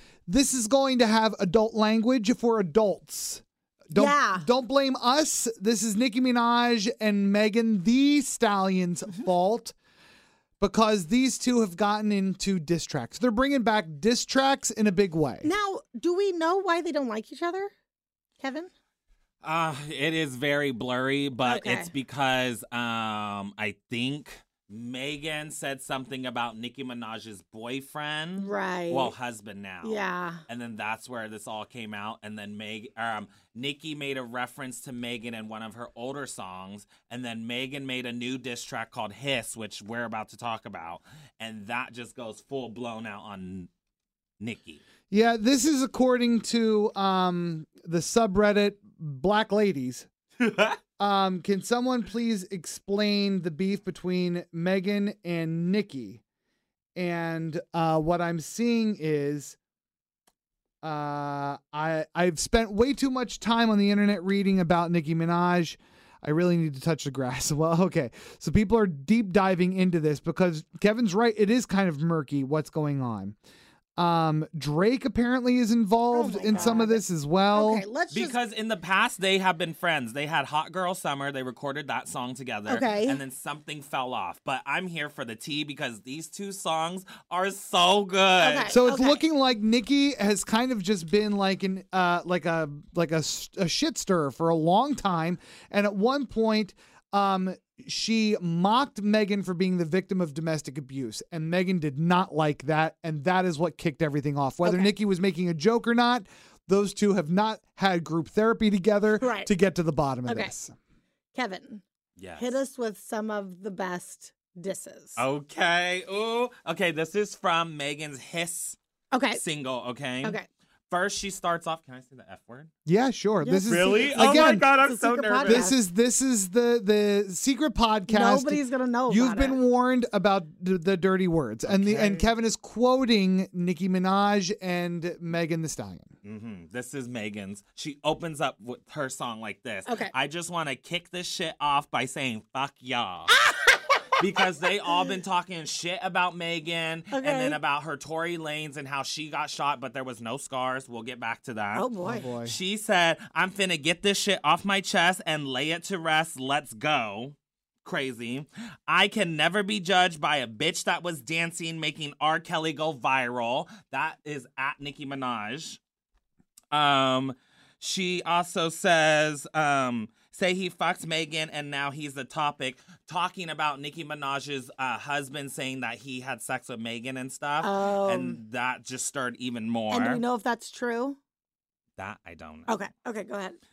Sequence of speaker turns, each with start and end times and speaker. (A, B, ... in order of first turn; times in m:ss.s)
0:00.3-0:09.8 A
0:03.9-0:04.5 B
0:10.6-0:15.5 A
0:15.4-0:17.7 B
0:18.4-0:18.7 B
0:19.4-0:43.7 C
0:21.4-0:21.9 B
0:28.4-0:29.1 B
0:29.8-0:30.4 B
0:44.4-0:44.8 C
0:45.1-0:50.1 A
0:50.4-0:50.8 C
0:51.0-0:56.2 A
0:57.0-0:59.6 A
1:00.8-1:13.4 A
1:14.0-1:17.8 A
1:16.1-1:18.4 B
1:16.5-1:16.8 C
1:18.1-1:28.8 C
1:22.7-1:23.2 B
1:28.4-1:29.2 B
1:28.7-1:50.8 A
1:44.6-1:44.9 B
1:49.2-1:49.5 B
1:50.3-1:50.5 B
1:51.3-1:51.8 B
1:52.2-1:52.6 C
1:52.4-1:55.2 B
1:55.2-1:58.8 C
1:59.1-1:59.4 B
1:59.3-2:02.7 C
2:00.2-2:00.5 B
2:02.9-2:04.7 A
2:03.4-2:05.8 B
2:03.6-2:05.7 C
2:05.5-2:16.1 A
2:08.1-2:09.6 B
2:11.6-2:12.3 C
2:16.2-2:23.4 C
2:19.9-2:20.1 B
2:23.4-2:23.9 B
2:24.2-2:31.9 C
2:27.1-2:27.6 B
2:31.8-2:32.3 B
2:32.0-2:32.6 A
2:32.4-2:45.8 C
2:46.7-3:00.2 C
2:57.6-2:58.4 B
2:59.9-3:01.2 B
3:02.0-3:02.8 C
3:02.7-3:03.6 B